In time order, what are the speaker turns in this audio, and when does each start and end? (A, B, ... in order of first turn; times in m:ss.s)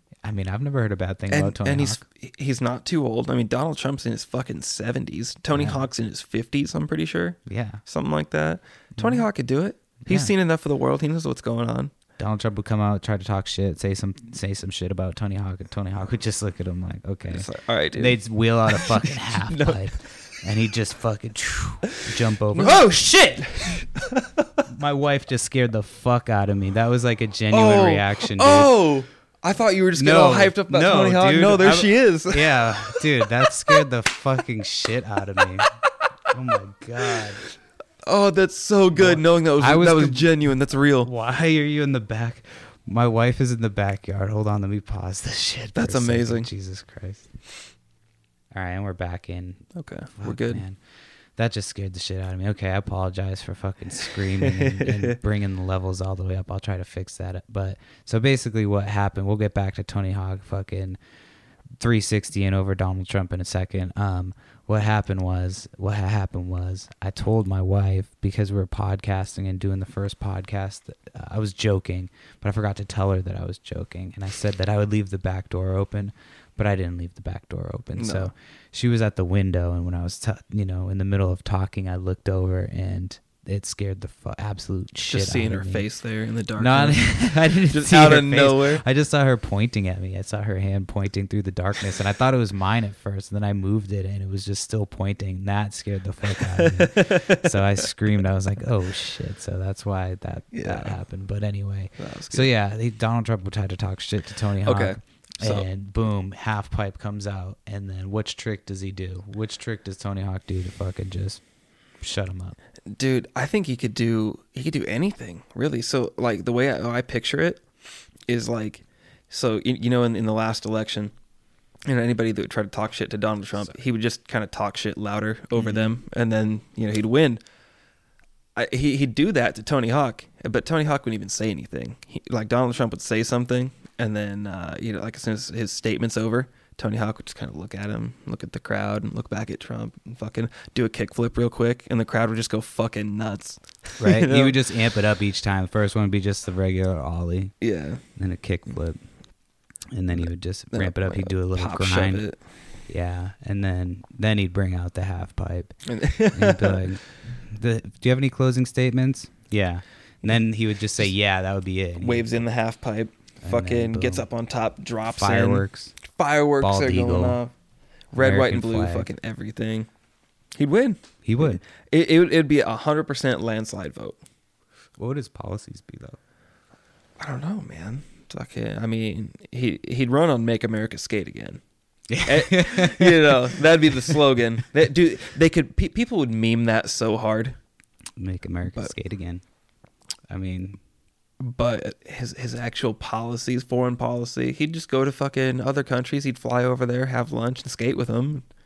0:00.2-0:02.0 A
0:01.3-0:11.9 B
0:05.5-0:05.8 A
0:07.4-0:07.8 A
0:09.0-0:09.2 A
0:10.0-0:10.3 A
0:12.2-0:22.9 A
0:17.3-0:19.9 B
0:22.5-0:24.5 B
0:24.7-0:28.8 A
0:27.5-0:33.8 B
0:30.0-0:35.8 A
0:36.3-0:37.4 A
0:38.0-0:41.1 B
0:38.9-0:40.3 A
0:41.0-0:47.3 A
0:45.8-0:46.5 B
0:48.5-0:50.8 A
0:49.7-0:50.6 B
0:51.4-1:01.0 A
0:54.3-0:55.2 B
1:01.8-1:25.8 A
1:18.0-1:18.3 B
1:25.1-1:28.8 B
1:26.6-1:51.4 A
1:36.3-1:37.8 B
1:40.5-1:41.0 B
1:42.0-1:42.5 B
1:44.6-1:45.7 B
1:52.0-1:52.6 A
1:52.9-1:57.6 B
1:58.2-2:01.1 B
2:01.8-2:07.4 B
2:05.6-2:05.9 A
2:08.5-2:24.6 B
2:24.0-2:27.5 A
2:27.6-2:28.0 B
2:28.1-2:29.0 A
2:29.9-2:32.3 A
2:30.1-2:32.4 B
2:32.9-2:35.7 A
2:35.9-2:36.8 B
2:36.3-2:42.3 A
2:42.0-2:47.5 B
2:43.4-2:44.3 A
2:45.1-2:45.9 A
2:46.6-2:47.4 A
2:48.1-2:49.9 B
2:48.2-2:49.1 A
2:50.5-2:54.2 B
2:51.2-2:51.6 A
2:55.0-2:56.2 A
2:57.2-3:01.6 B
3:02.1-3:04.2 A
3:02.2-3:07.6 B
3:08.2-3:09.4 A
3:10.3-3:10.8 A
3:11.4-3:18.5 B